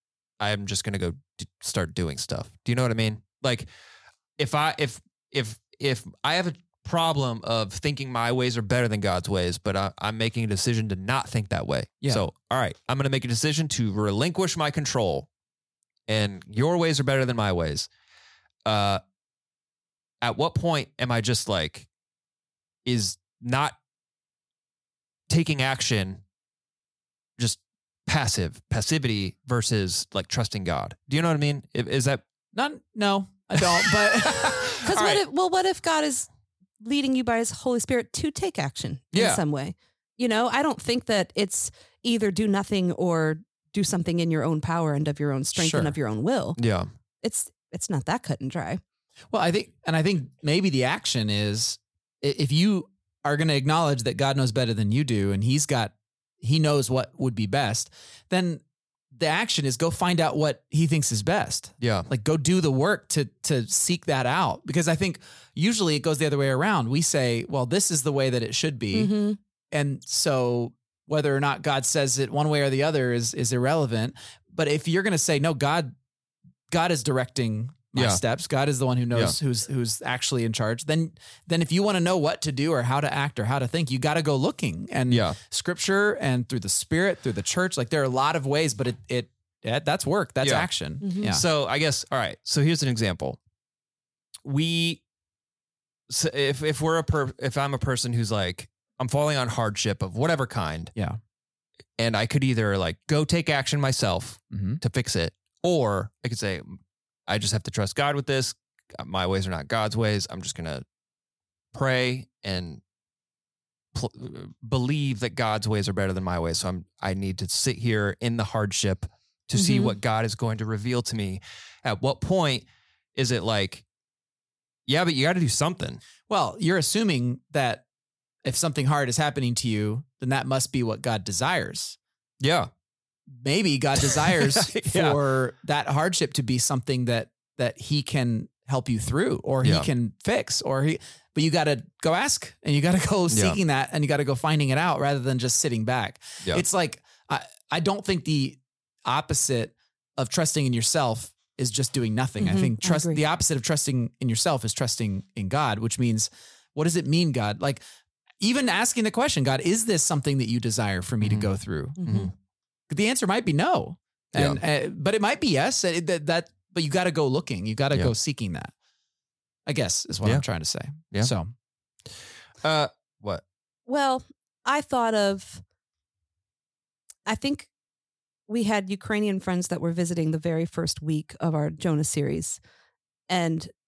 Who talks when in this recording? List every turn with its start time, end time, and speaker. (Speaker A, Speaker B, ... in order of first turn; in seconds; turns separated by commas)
Speaker A: 0.4-3.7, Speaker A: 4.4-15.3, Speaker A: 16.1-17.9, Speaker A: 18.6-19.0, Speaker A: 20.2-21.9, Speaker A: 22.8-23.8, Speaker A: 25.3-26.2, Speaker A: 27.4-32.2, Speaker B: 32.5-34.9, Speaker A: 33.6-35.2, Speaker C: 34.8-36.3, Speaker C: 36.8-46.6, Speaker A: 39.1-39.4, Speaker B: 45.5-46.0, Speaker A: 46.6-46.9, Speaker C: 47.2-48.8, Speaker B: 49.3-58.6, Speaker B: 59.1-69.1, Speaker A: 61.8-62.1, Speaker C: 68.9-69.4, Speaker B: 69.7-75.9, Speaker B: 76.7-91.4, Speaker A: 77.9-78.2, Speaker A: 85.1-85.4, Speaker A: 90.4-90.7, Speaker C: 91.0-91.3, Speaker A: 91.2-93.4, Speaker A: 94.4-95.0, Speaker A: 96.1-100.9, Speaker A: 102.0-106.8, Speaker B: 104.5-104.8, Speaker A: 107.3-110.8, Speaker A: 111.7-112.8, Speaker A: 113.9-123.8, Speaker C: 119.5-119.9, Speaker A: 124.9-126.0, Speaker B: 126.3-127.8, Speaker B: 128.4-132.0, Speaker A: 132.4-132.7, Speaker B: 133.3-157.8, Speaker A: 134.0-135.2, Speaker A: 143.3-143.6, Speaker C: 152.4-153.2, Speaker B: 158.4-162.3, Speaker C: 162.0-162.3, Speaker A: 162.0-162.3, Speaker B: 162.9-168.7, Speaker B: 169.7-171.5, Speaker A: 172.6-173.4, Speaker C: 173.9-175.6, Speaker C: 177.2-177.7, Speaker C: 178.5-182.6, Speaker C: 183.3-183.7